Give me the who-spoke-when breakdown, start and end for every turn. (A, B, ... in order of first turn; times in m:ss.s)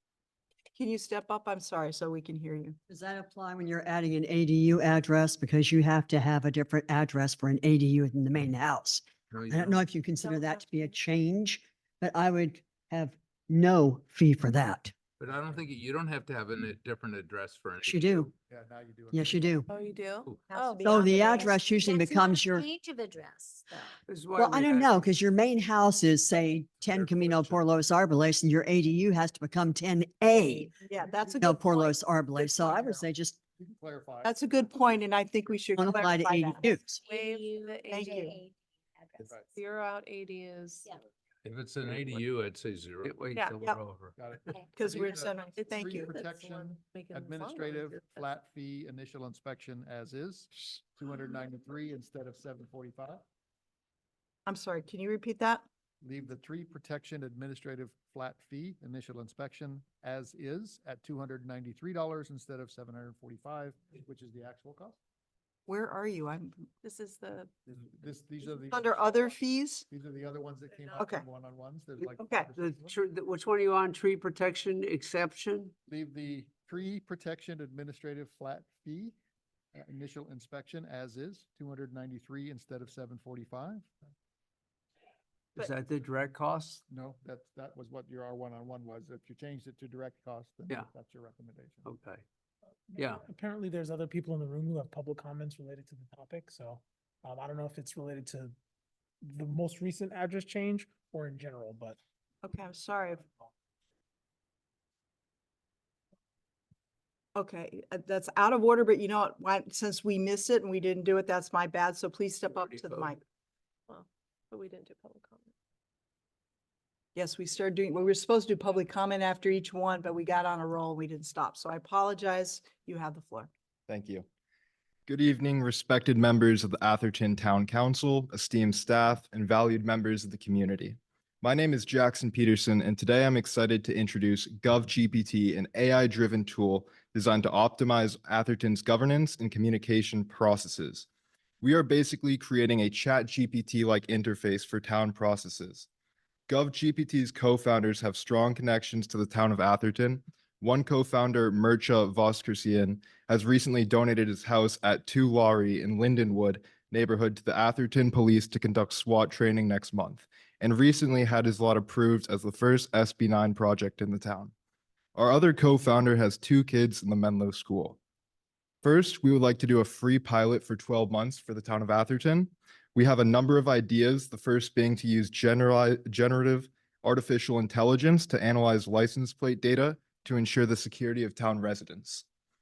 0:00.7-0:02.8 A
0:02.9-0:14.9 B
0:09.3-0:09.8 C
0:15.2-0:18.3 C
0:15.3-0:15.6 D
0:17.8-0:18.3 B
0:18.5-0:19.7 D
0:19.1-0:19.7 B
0:19.7-0:20.8 E
0:20.5-0:24.0 F
0:20.5-0:21.6 A
0:20.8-0:22.7 B
0:24.1-0:25.1 G
0:24.4-0:30.7 B
0:26.8-0:27.7 C
0:30.8-0:32.0 A
0:31.4-0:33.4 B
0:32.6-0:33.0 D
0:33.6-0:34.8 D
0:34.2-0:36.6 A
0:35.8-0:37.0 B
0:36.6-0:39.3 F
0:37.1-0:37.9 E
0:37.9-0:38.4 A
0:39.2-0:39.6 D
0:39.6-0:40.9 E
0:41.4-0:43.2 C
0:41.9-0:42.2 G
0:43.0-0:44.6 G
0:43.6-0:43.8 A
0:44.2-0:53.2 D
0:44.7-0:46.2 A
0:46.3-0:48.2 E
0:54.5-0:55.6 A
0:56.0-1:05.0 D
1:05.7-1:06.7 A
1:06.8-1:07.5 E
1:07.7-1:13.0 D
1:08.7-1:09.9 A
1:11.0-1:11.3 A
1:12.0-1:15.7 G
1:12.2-1:12.5 A
1:15.9-1:19.2 D
1:19.8-1:23.9 D
1:25.6-1:26.8 G
1:26.9-1:31.9 D
1:31.8-1:32.2 G
1:33.0-1:38.6 H
1:33.0-1:33.2 G
1:39.2-1:42.0 H
1:42.4-1:43.2 A
1:47.4-1:53.2 A
1:53.9-1:55.5 E
1:57.2-2:03.5 A
2:03.9-2:04.2 I
2:05.1-2:21.1 I
2:21.6-2:25.9 I
2:26.5-2:44.5 I
2:45.2-2:48.0 I
2:48.8-3:02.2 I